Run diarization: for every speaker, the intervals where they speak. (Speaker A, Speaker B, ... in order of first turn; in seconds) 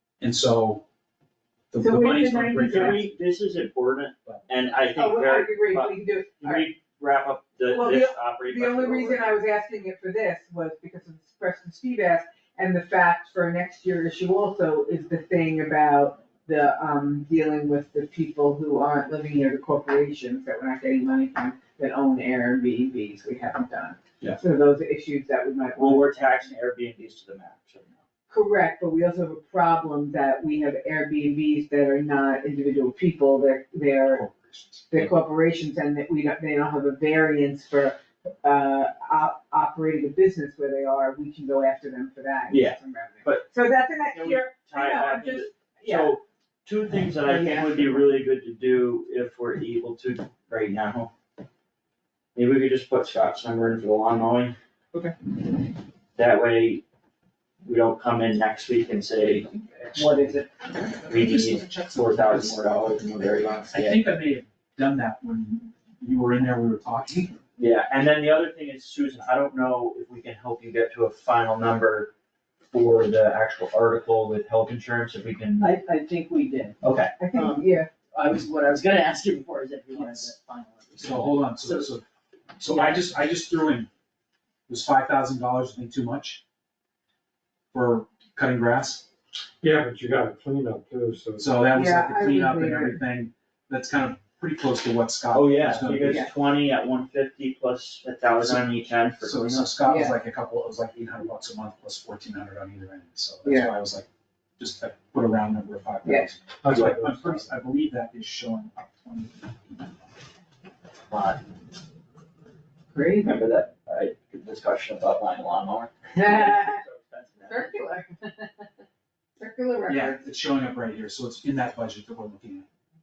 Speaker A: 0.2-0.8, 1.7-3.1, 34.1-35.1, 59.9-60.2, 61.0-62.6, 63.7-67.4, 79.9-80.3, 80.9-82.0, 82.6-83.9, 84.7-86.4, 87.7-89.0, 91.4-96.3, 99.2-104.1, 104.6-110.0, 119.9-122.7
Speaker B: 1.8-3.0, 4.9-6.7, 7.7-26.2, 28.3-34.2, 34.9-46.1, 47.2-48.1, 59.9-60.5, 77.2-77.9, 91.7-93.0, 99.8-100.2, 103.4-103.7, 112.9-113.3, 116.1-116.8, 117.5-118.2, 119.4-120.2
Speaker C: 2.7-9.4, 25.8-28.0, 42.5-43.5, 44.1-51.1, 52.3-54.5, 56.1-56.8, 57.6-59.5, 61.1-64.1, 67.6-72.1, 72.7-75.7, 76.8-77.1, 95.3-99.8, 111.1-111.4, 113.2-118.0
Speaker D: 75.6-76.8, 77.3-82.0, 82.7-83.1
Speaker E: 89.6-91.7, 106.6-107.5